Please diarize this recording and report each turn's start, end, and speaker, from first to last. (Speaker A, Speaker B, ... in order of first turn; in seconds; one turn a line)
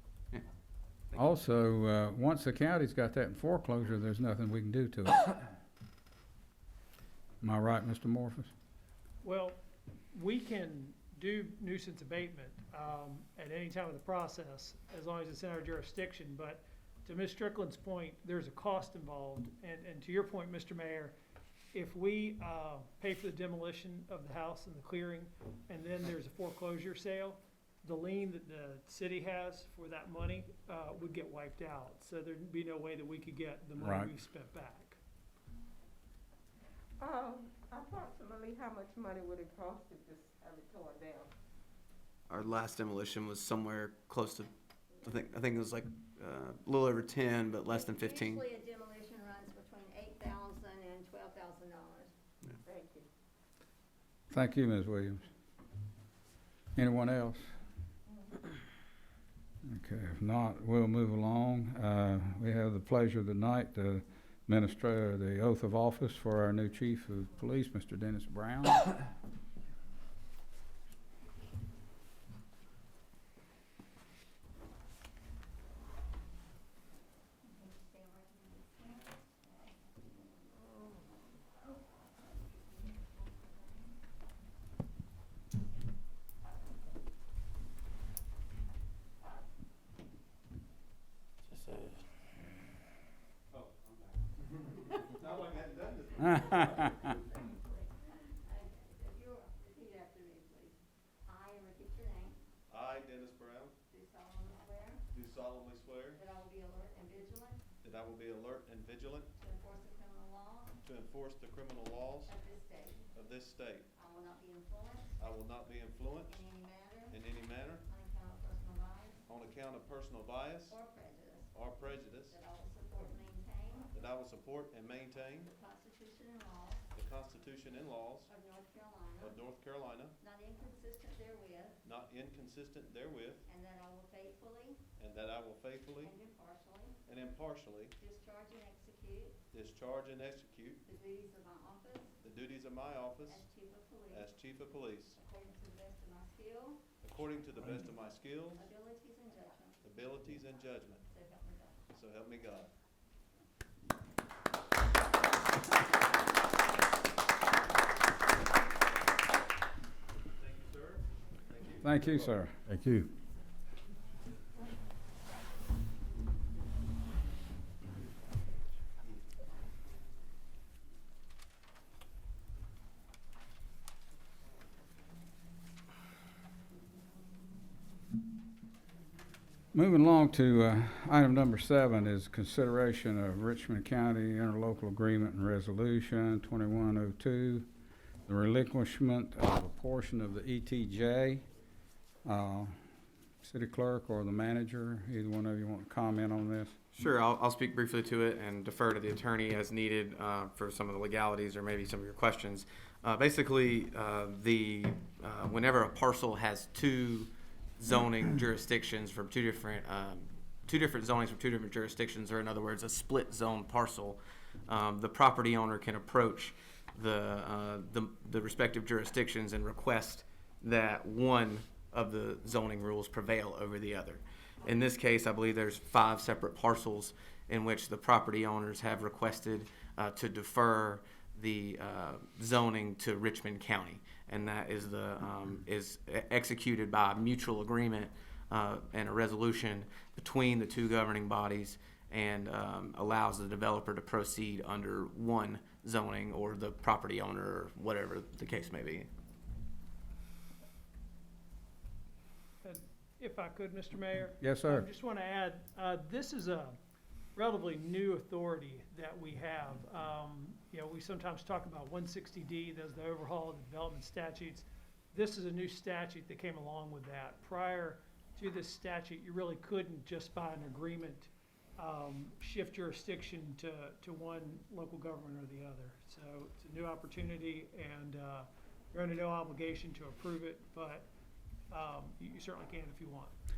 Speaker A: 1.1-5.3
Speaker A: 7.4-8.5
Speaker B: 9.2-9.6
Speaker B: 10.1-21.2
Speaker B: 21.7-35.0
Speaker A: 33.8-34.1
Speaker C: 37.0-41.3
Speaker D: 42.3-44.5
Speaker D: 45.0-48.4
Speaker E: 47.7-52.1
Speaker C: 52.5-53.1
Speaker A: 54.3-55.2
Speaker A: 56.8-57.5
Speaker A: 59.6-68.8
Speaker E: 77.4-81.8
Speaker E: 82.3-83.9
Speaker D: 91.6-91.9
Speaker F: 93.5-97.3
Speaker A: 96.2-96.7
Speaker E: 96.6-102.4
Speaker F: 102.7-103.8
Speaker E: 103.9-105.1
Speaker F: 105.1-106.2
Speaker E: 106.1-107.7
Speaker F: 107.8-109.3
Speaker E: 109.3-110.8
Speaker F: 110.8-112.3
Speaker E: 112.3-113.1
Speaker F: 113.1-113.9
Speaker E: 114.0-115.2
Speaker F: 115.2-116.4
Speaker E: 116.3-117.3
Speaker F: 117.1-117.9
Speaker E: 117.9-119.2
Speaker F: 119.3-120.8
Speaker E: 120.7-123.9
Speaker F: 121.5-122.4
Speaker F: 123.9-125.5
Speaker E: 125.5-126.8
Speaker F: 126.9-128.3
Speaker E: 128.3-129.4
Speaker F: 129.2-130.2
Speaker E: 130.2-131.8
Speaker F: 131.8-133.5
Speaker E: 133.5-134.8
Speaker F: 135.0-136.1
Speaker E: 136.0-137.0
Speaker F: 137.1-138.0
Speaker E: 138.0-139.4
Speaker F: 139.5-140.8
Speaker E: 140.9-142.2
Speaker F: 142.2-143.5
Speaker E: 143.3-144.3
Speaker F: 144.1-145.2
Speaker E: 145.2-146.8
Speaker F: 147.0-148.7
Speaker E: 148.6-149.8
Speaker F: 149.8-151.1
Speaker E: 151.1-151.8
Speaker F: 151.9-152.7
Speaker F: 160.4-162.3
Speaker A: 161.8-162.7
Speaker A: 179.7-187.7
Speaker A: 188.3-191.4
Speaker A: 192.2-192.7
Speaker A: 193.4-196.8
Speaker D: 196.9-249.1
Speaker B: 252.6-256.8
Speaker A: 254.4-254.9
Speaker B: 257.4-281.1
Speaker B: 281.7-283.3